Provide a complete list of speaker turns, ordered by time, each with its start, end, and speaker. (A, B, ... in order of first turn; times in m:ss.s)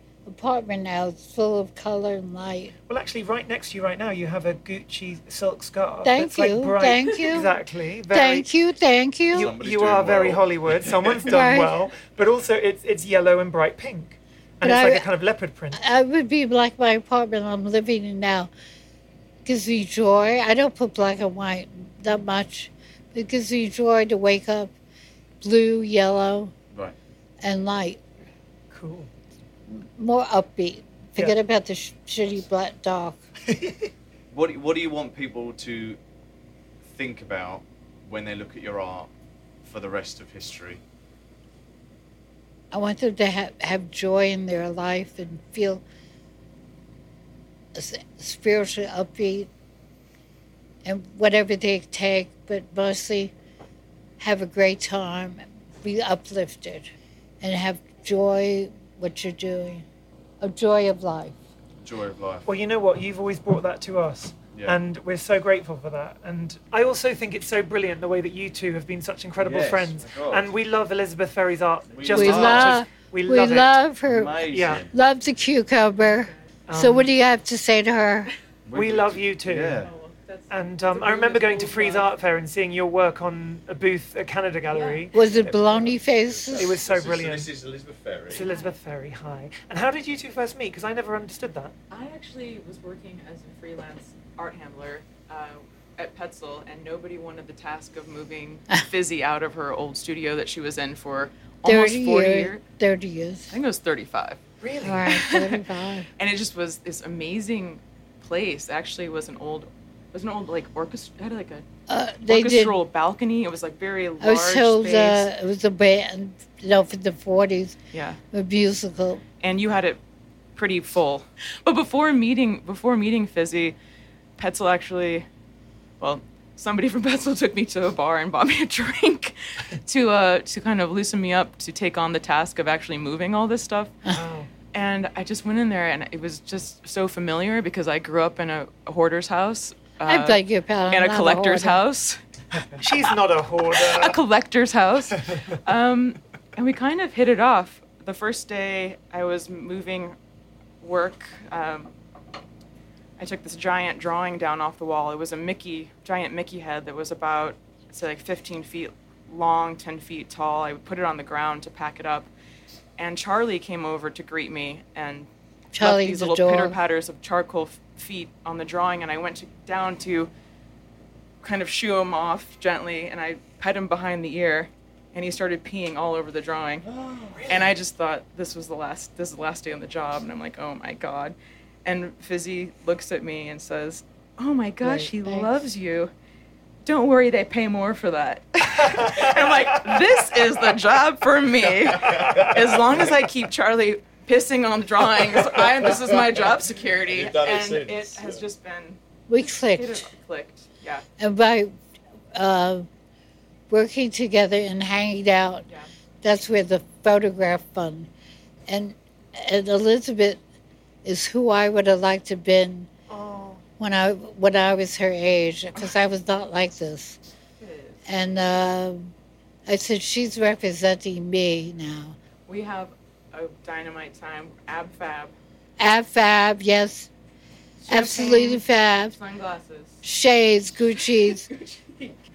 0:00.2-0:02.7 A
0:02.9-0:08.5 B
0:06.0-0:07.5 A
0:08.1-0:09.5 A
0:09.3-0:15.8 B
0:09.3-0:11.4 C
0:11.2-0:11.7 A
0:14.6-0:15.1 A
0:15.7-0:18.5 A
0:19.4-0:24.7 A
0:25.4-0:26.5 A
0:27.4-0:28.0 A
0:28.7-0:29.1 B
0:29.7-0:33.2 A
0:33.5-0:33.9 B
0:34.3-0:36.0 C
0:36.8-0:39.1 C
0:39.6-0:40.8 C
0:42.7-0:45.8 A
0:47.7-0:49.5 A
0:50.8-0:53.3 A
0:54.2-0:56.9 A
0:57.4-0:59.8 A
1:00.4-1:01.4 A
1:01.8-1:02.5 C
1:02.4-1:13.7 B
1:04.5-1:04.8 C
1:09.4-1:10.5 C
1:11.9-1:12.8 C
1:12.1-1:18.3 A
1:14.0-1:14.9 C
1:14.5-1:14.9 B
1:16.0-1:16.4 D
1:16.7-1:17.1 B
1:18.6-1:19.9 C
1:18.7-1:19.8 B
1:19.7-1:22.2 D
1:20.5-1:25.7 B
1:24.7-1:25.2 D
1:25.1-1:26.8 A
1:25.5-1:28.5 C
1:26.6-1:27.5 B
1:28.3-1:31.8 B
1:28.4-1:28.7 D
1:31.9-1:42.6 D
1:41.6-1:43.6 A
1:43.5-1:44.4 D
1:44.6-1:45.1 B
1:44.8-1:46.1 A
1:45.1-1:45.6 D
1:46.2-1:51.6 D
1:51.9-1:52.8 A
1:52.3-1:55.3 D
1:54.2-1:57.8 A
1:57.9-1:58.2 D
1:58.3-1:59.2 A
1:59.4-2:00.0 D
2:00.5-2:03.8 D
2:04.4-2:05.2 D
2:06.0-2:14.0 D
2:14.1-2:14.5 B
2:14.7-2:22.2 D
2:20.1-2:21.8 A
2:22.6-2:24.2 B
2:23.8-2:30.1 D
2:30.8-2:31.9 D
2:33.2-2:42.3 D
2:43.0-2:50.3 D
2:45.7-2:46.8 A
2:51.4-2:56.8 D
2:56.9-2:57.7 B
2:57.5-3:06.1 D
3:04.8-3:05.5 A
3:06.8-3:19.0 D
3:08.9-3:09.8 B
3:11.8-3:13.1 C
3:15.2-3:18.4 C
3:19.3-3:20.1 A
3:19.6-3:21.0 D
3:21.2-3:21.7 A
3:22.3-3:22.8 A
3:23.7-3:25.6 A
3:26.2-3:28.1 A
3:28.7-3:30.4 A
3:31.0-3:32.9 A
3:33.1-3:33.6 D
3:33.8-3:37.2 A
3:37.6-3:38.0 D
3:38.0-3:39.1 A
3:39.7-3:42.2 A
3:42.5-3:45.3 D
3:45.8-3:47.1 A
3:47.8-3:50.0 D
3:47.9-3:49.2 A
3:50.0-3:51.5 A
3:51.2-3:52.2 D